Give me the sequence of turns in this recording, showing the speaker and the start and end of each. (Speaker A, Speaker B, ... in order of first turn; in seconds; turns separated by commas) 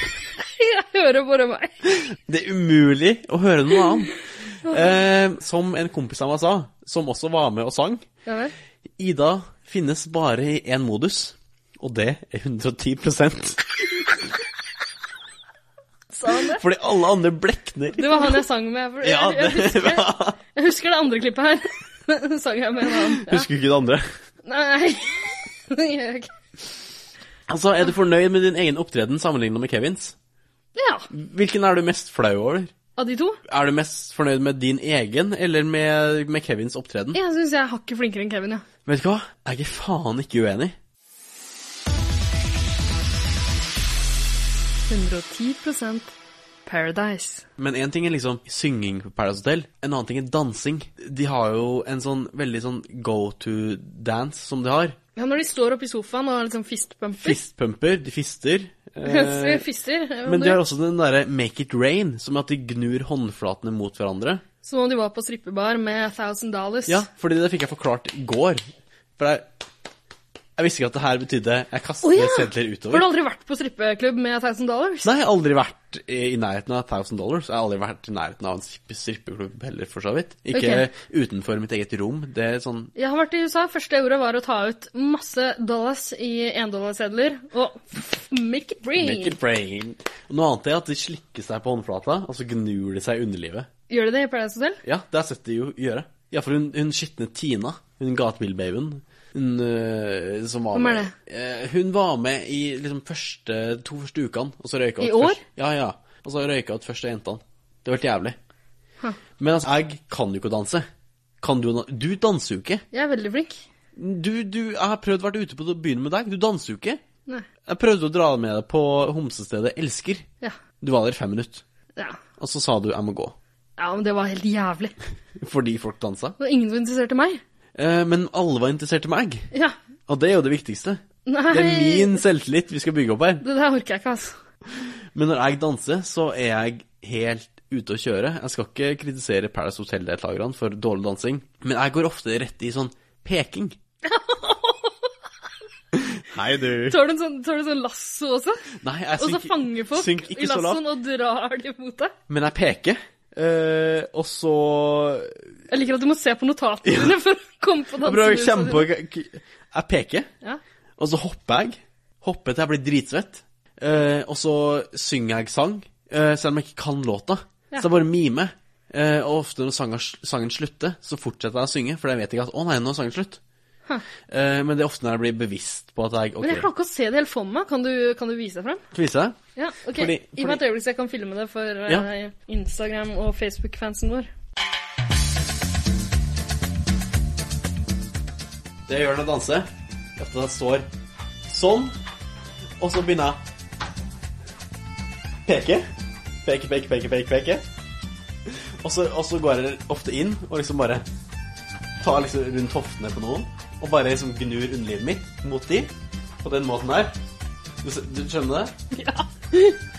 Speaker A: 0.4-1.8, Speaker B: 1.9-8.0, Speaker A: 4.6-5.0, Speaker A: 8.2-8.5, Speaker B: 9.0-14.1, Speaker A: 16.1-16.6, Speaker B: 16.5-18.4, Speaker A: 17.9-23.5, Speaker B: 19.0-20.4, Speaker B: 23.1-24.1, Speaker A: 24.4-26.3, Speaker B: 27.5-30.1, Speaker A: 30.8-31.1, Speaker B: 31.1-32.7, Speaker A: 33.0-33.4, Speaker B: 33.5-37.2, Speaker A: 37.1-38.6, Speaker B: 38.9-40.8, Speaker A: 44.9-46.1, Speaker A: 46.6-47.5, Speaker B: 47.6-55.0, Speaker A: 55.1-57.4, Speaker B: 57.2-59.6, Speaker A: 59.0-60.6, Speaker B: 60.2-64.4, Speaker A: 64.6-67.1, Speaker B: 66.9-68.6, Speaker B: 69.2-69.5, Speaker B: 70.6-73.1, Speaker A: 72.0-75.1, Speaker B: 75.0-82.9, Speaker A: 80.5-80.8, Speaker A: 83.0-89.4, Speaker B: 89.0-93.7, Speaker A: 93.9-94.8, Speaker B: 94.8-108.4, Speaker A: 100.7-101.1, Speaker A: 105.0-105.4, Speaker B: 109.4-110.9, Speaker B: 111.4-112.8, Speaker A: 112.9-113.6, Speaker B: 114.0-117.0, Speaker B: 117.7-120.2, Speaker B: 120.8-121.6, Speaker B: 122.4-123.3, Speaker A: 123.8-124.9, Speaker B: 125.4-126.4, Speaker A: 126.4-127.4, Speaker B: 127.8-129.5, Speaker B: 130.1-133.4, Speaker A: 131.2-132.2, Speaker A: 133.4-134.4, Speaker B: 135.1-143.8, Speaker A: 144.0-145.1, Speaker B: 145.9-147.0, Speaker A: 146.9-148.6, Speaker B: 148.8-150.8, Speaker A: 149.2-152.1, Speaker B: 152.3-155.4, Speaker A: 155.7-158.9, Speaker B: 156.8-157.2, Speaker B: 158.0-160.3, Speaker B: 161.0-173.4, Speaker B: 174.3-176.7, Speaker A: 176.4-178.8, Speaker B: 178.9-179.4, Speaker A: 179.6-184.3, Speaker B: 179.9-180.6, Speaker B: 188.9-190.9, Speaker B: 191.5-191.9, Speaker B: 192.8-193.4, Speaker B: 195.4-195.8, Speaker B: 196.4-197.7, Speaker B: 198.8-201.0, Speaker B: 202.0-205.9, Speaker B: 206.4-207.1, Speaker B: 207.8-208.7, Speaker A: 208.9-209.8